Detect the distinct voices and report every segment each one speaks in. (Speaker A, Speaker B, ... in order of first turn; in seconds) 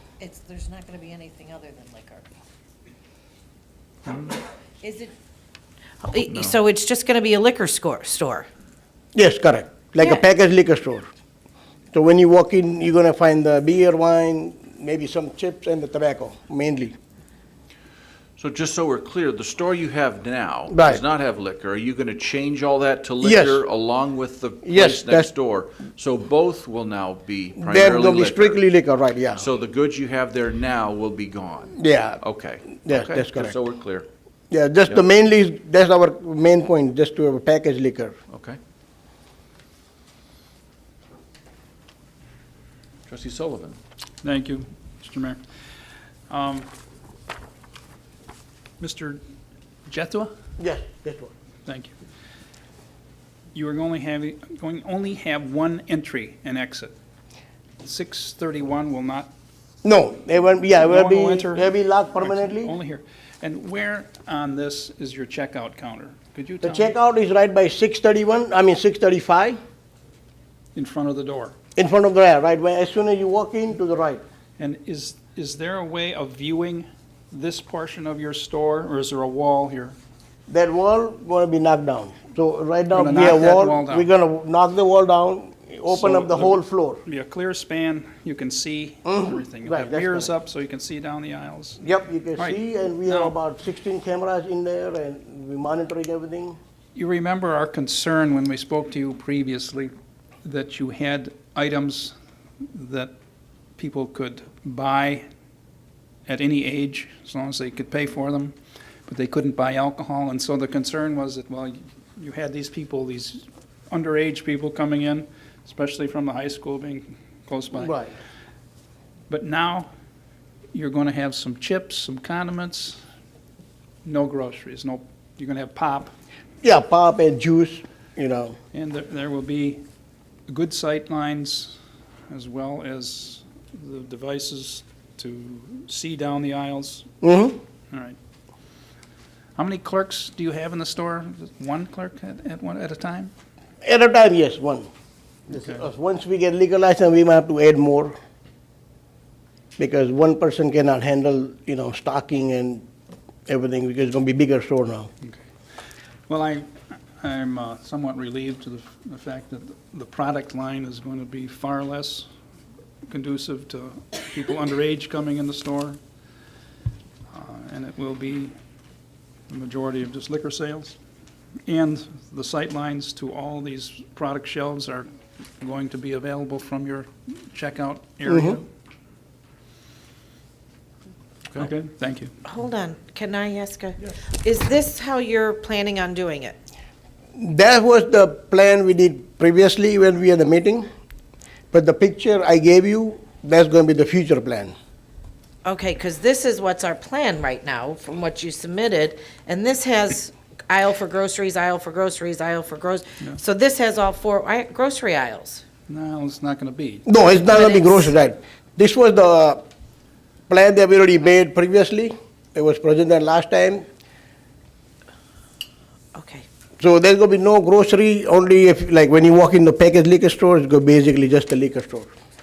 Speaker A: 0.2-2.3, 4.8-5.1, 6.0-8.5, 182.5-186.6, 195.6-205.7, 207.4-208.1, 216.1-216.5
Speaker B: 9.2-11.1, 11.9-16.9, 20.7-21.0, 23.2-23.6, 24.6-25.3, 27.6-29.5, 31.8-32.2, 32.9-33.6, 34.5-38.1, 50.6-51.3, 59.8-62.7, 66.6-69.6, 71.8-74.2, 80.5-87.0, 89.1-90.3, 91.8-96.6, 117.8-118.1, 126.6-128.6, 137.2-137.6, 143.8-144.9, 145.5-148.2, 149.8-152.8, 153.5-155.1, 178.3-178.6, 187.4-190.9, 191.7-194.7, 207.1-209.6, 210.5-213.9, 216.8-222.1
Speaker C: 18.4-28.6, 29.4-34.1, 38.3-38.6, 43.1-43.8
Speaker D: 44.2-45.4, 46.3-46.7, 48.8-49.2, 49.9-50.3, 51.7-51.9, 53.5-56.9, 57.8-59.3, 60.8-66.9, 70.8-71.5, 74.6-80.0, 82.9-84.1, 85.9-91.8, 92.4-93.3, 97.0-99.9, 100.4-102.2, 102.7-103.1, 103.8-105.2, 106.3-108.6, 109.1-117.9, 119.3-119.9, 120.7-123.0, 124.0-126.1, 128.7-129.8, 130.5-131.8, 132.3-137.1, 139.6-143.3, 145.5-145.8, 156.3-162.3, 163.1-166.0, 167.3-168.6, 169.5-171.0, 171.7-175.1, 175.6-178.7, 181.6-182.3, 205.9-207.1